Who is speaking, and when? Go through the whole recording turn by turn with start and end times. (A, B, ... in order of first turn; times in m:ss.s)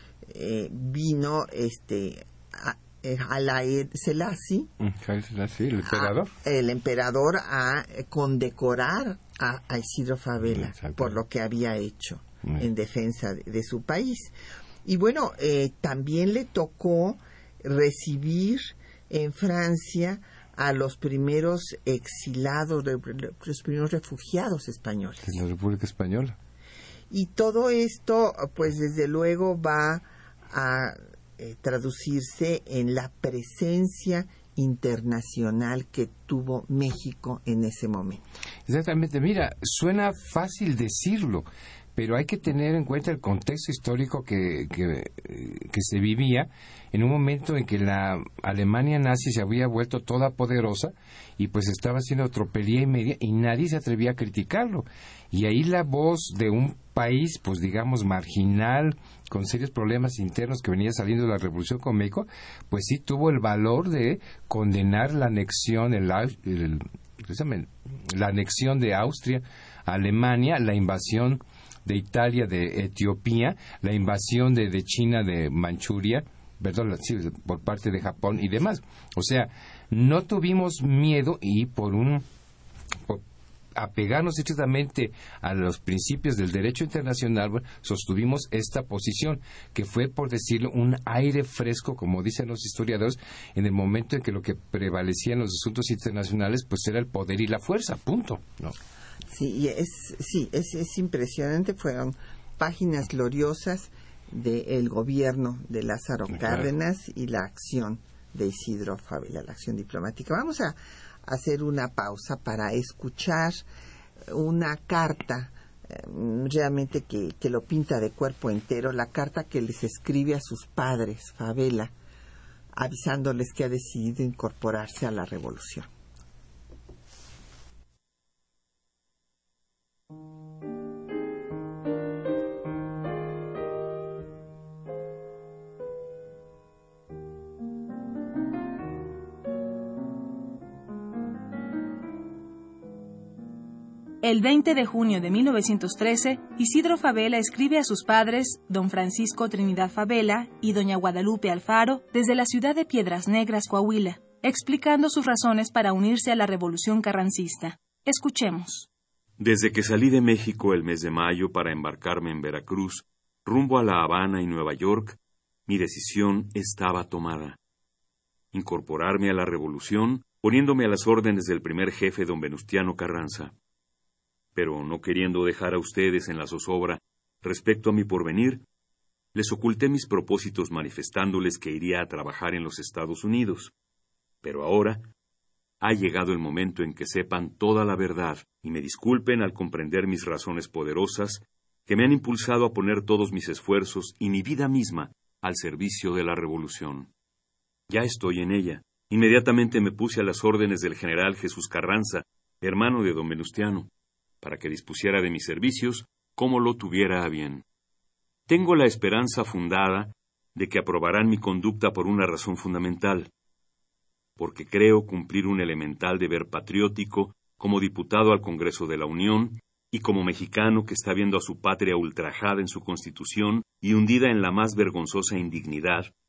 0:00.3-0:04.7 A
0:04.8-0:06.3 B
0:05.8-0:14.3 A
0:10.5-0:11.2 B
0:14.8-0:25.4 A
0:25.2-0:26.4 B
0:27.1-0:38.2 A
0:38.7-1:22.2 B
1:23.7-1:38.8 B
1:39.3-1:53.6 A
1:46.4-1:46.6 B
1:54.3-2:01.9 A
2:02.8-2:05.9 A
2:24.2-2:38.9 C
2:39.4-2:47.6 D
2:48.5-2:53.5 D
2:54.5-2:58.6 D
2:59.3-3:03.7 D
3:04.4-3:05.1 D
3:05.8-3:17.1 D
3:17.9-3:27.6 D
3:28.5-3:33.3 D
3:34.4-3:46.1 D